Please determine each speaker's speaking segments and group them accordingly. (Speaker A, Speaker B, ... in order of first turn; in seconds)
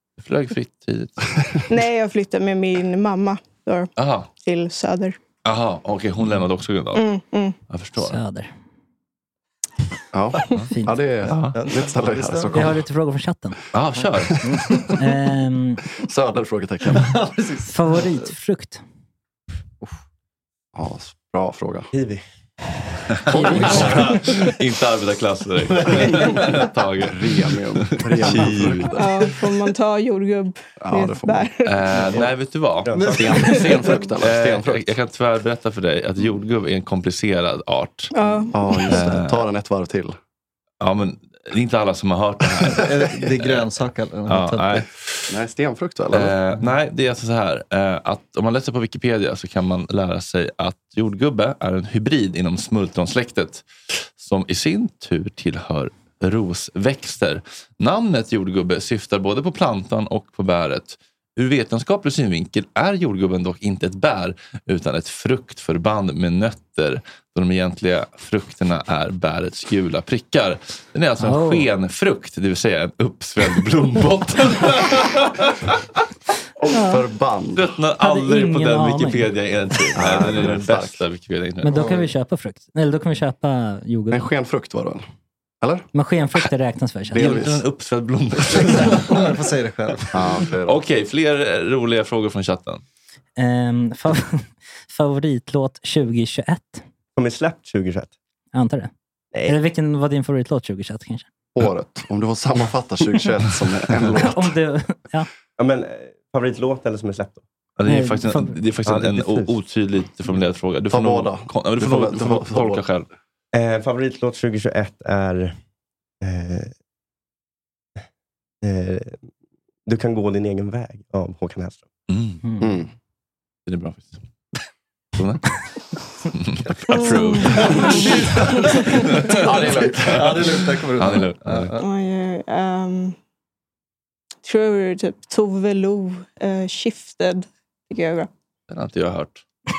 Speaker A: 0.2-1.5, 4.0-4.3, 5.5-7.0, 7.7-8.2, 11.3-11.6, 13.7-14.5, 23.2-29.0, 31.6-38.1, 38.8-39.5, 40.8-43.6, 44.3-45.2, 46.1-75.8, 77.6-81.8, 87.2-89.3, 90.6-92.8, 107.8-113.1, 122.1-122.4, 123.7-124.2, 125.2-125.5, 126.3-131.7, 138.7-139.4
Speaker B: 1.7-3.9, 4.4-5.2, 6.9-7.6, 28.9-31.9, 38.1-38.9, 126.9-128.9, 131.8-133.2, 134.4-138.3
Speaker C: 8.0-8.5, 10.7-10.9, 12.5-13.6, 15.0-15.8, 17.7-18.8, 71.2-71.7, 76.7-77.0, 78.0-79.3, 81.6-84.3, 85.9-87.3, 93.4-96.8, 98.5-98.9, 99.5-101.3, 104.2-105.3, 107.9-108.6, 122.4-122.7
Speaker D: 10.1-12.8, 16.1-17.1, 20.8-21.9, 23.3-24.3, 27.0-29.3, 30.8-31.5, 33.0-34.9, 38.5-40.2, 45.3-46.3, 76.8-77.7, 80.0-81.0, 84.1-85.0, 85.6-85.9, 87.1-87.6, 90.1-90.8, 101.5-104.5, 110.9-112.8, 122.6-122.9, 129.3-130.4
Speaker E: 11.5-12.6, 14.4-14.9, 16.9-18.3, 23.4-24.2, 25.7-26.6, 32.9-33.3, 42.7-44.9, 81.7-82.1, 88.5-90.2, 127.6-128.5, 130.0-131.9
Speaker F: 21.9-22.2, 97.2-98.1, 105.6-107.4, 108.9-109.5, 113.5-115.5, 116.2-116.7, 118.6-119.2, 119.9-121.8